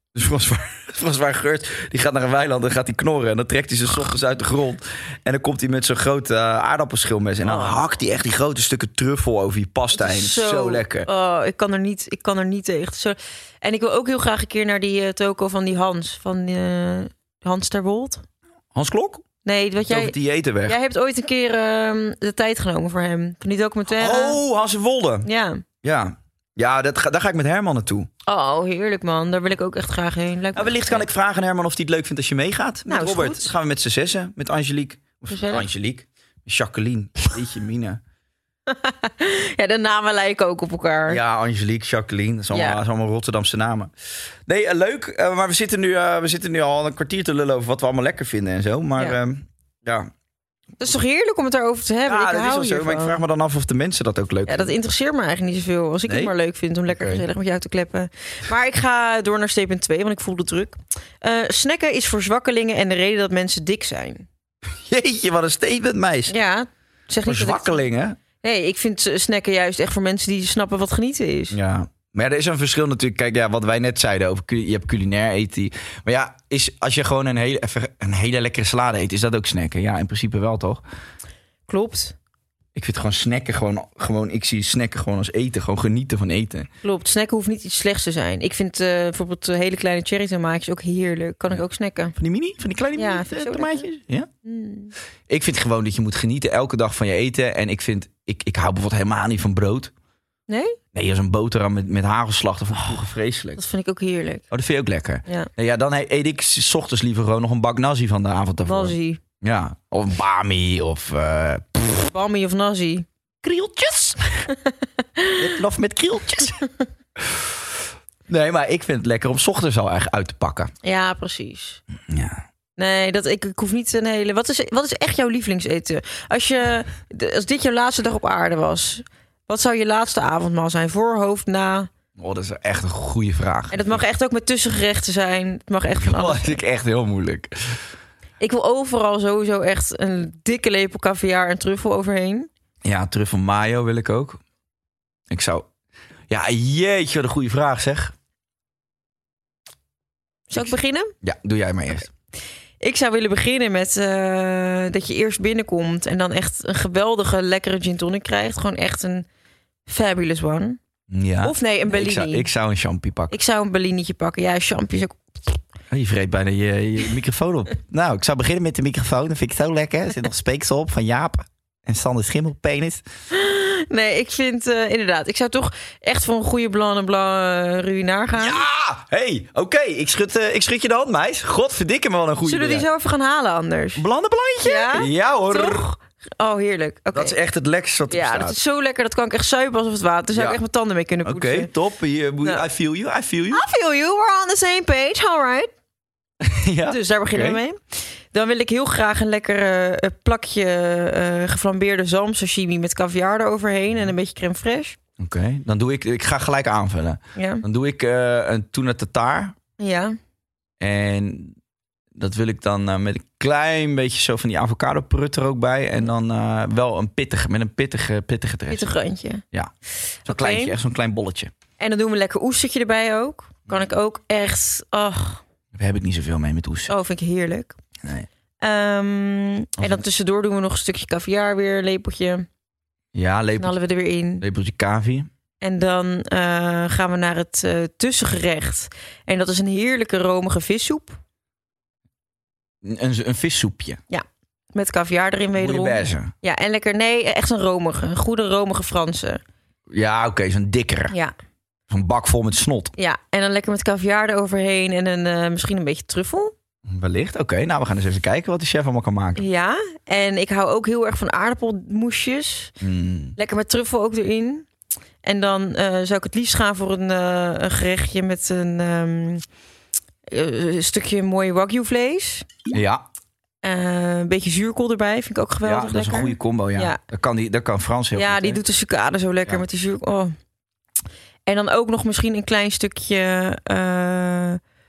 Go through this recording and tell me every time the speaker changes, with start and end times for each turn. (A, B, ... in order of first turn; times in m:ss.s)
0:00.1-0:11.1 A
0:07.4-0:07.8 B
0:09.9-0:18.2 B
0:18.7-0:19.2 A
0:19.4-0:24.4 B
0:19.9-0:20.8 A
0:23.9-0:25.3 A
0:25.2-0:25.6 B
0:25.8-0:28.1 A
0:28.2-0:31.0 B
0:30.5-0:38.0 A
0:32.9-0:33.5 B
0:35.3-0:35.6 B
0:38.7-0:41.2 B
0:41.1-0:43.9 A
0:42.5-0:42.8 B
0:44.5-0:50.1 A
0:50.8-0:53.2 B
0:52.0-0:54.7 A
0:54.4-1:04.3 B
0:56.0-0:56.3 A
0:56.9-0:57.2 A
1:04.8-1:06.3 A
1:06.3-1:07.8 B
1:07.2-1:08.2 A
1:08.4-1:11.6 B
1:11.5-1:20.8 A
1:21.7-1:22.2 B
1:22.7-1:26.7 A
1:26.8-1:32.1 B
1:32.2-1:34.3 A
1:33.0-1:33.9 B
1:34.4-1:34.9 B
1:35.3-1:39.9 A
1:40.5-1:40.8 B
1:40.9-1:43.6 A
1:43.6-1:44.4 B
1:44.5-1:52.1 A
1:48.6-1:49.2 B
1:52.1-1:53.0 B
1:53.4-1:54.5 A
1:54.5-1:55.4 B
1:55.4-1:56.6 A
1:57.2-1:57.6 A
1:58.3-2:00.7 A
2:00.8-2:01.8 B
2:02.1-2:02.4 A
2:02.8-2:11.9 B
2:12.2-2:14.0 A
2:13.7-2:16.6 B
2:16.0-2:17.8 A
2:18.4-2:22.5 B
2:22.8-2:24.4 A
2:25.3-2:25.7 A
2:26.3-2:28.1 A
2:30.5-2:31.1 B
2:30.6-2:32.1 A
2:32.8-2:39.2 B
2:39.9-2:40.8 B
2:41.1-2:43.3 A
2:41.4-2:42.5 B
2:43.3-2:45.6 B
2:45.9-2:53.0 A
2:53.3-2:58.6 B
2:58.4-3:02.9 A
3:02.4-3:04.0 B
3:04.0-3:05.8 A
3:04.6-3:07.4 B
3:07.1-3:08.6 A
3:08.1-3:11.7 B
3:10.3-3:10.6 A
3:11.2-3:13.6 A
3:13.5-3:15.7 B
3:16.4-3:17.6 A
3:16.9-3:25.0 B
3:25.2-3:29.6 A
3:27.4-3:27.6 B
3:29.8-3:30.2 B
3:30.8-3:31.6 A
3:32.1-3:38.9 A
3:38.7-3:39.4 B
3:40.2-3:40.7 B
3:40.2-3:41.5 A
3:41.8-3:45.4 B
3:45.7-3:46.9 A
3:46.9-3:47.8 B
3:48.0-3:48.3 A
3:48.6-3:52.5 B
3:49.8-3:50.0 A
3:53.1-3:53.8 A
3:53.6-3:54.4 B
3:54.4-3:55.3 A
3:55.6-4:01.2 B
4:02.8-4:04.0 A
4:04.1-4:09.4 B
4:05.6-4:06.3 A
4:09.9-4:11.1 A
4:11.9-4:12.9 A
4:13.0-4:16.5 B
4:16.9-4:19.4 A
4:19.4-4:22.7 B
4:22.8-4:23.4 A
4:23.4-4:24.7 B
4:25.2-4:29.4 B
4:30.3-4:32.5 B
4:32.7-4:33.0 A
4:33.6-4:37.0 B
4:35.6-4:38.6 A
4:38.1-4:40.3 B
4:41.4-4:44.6 B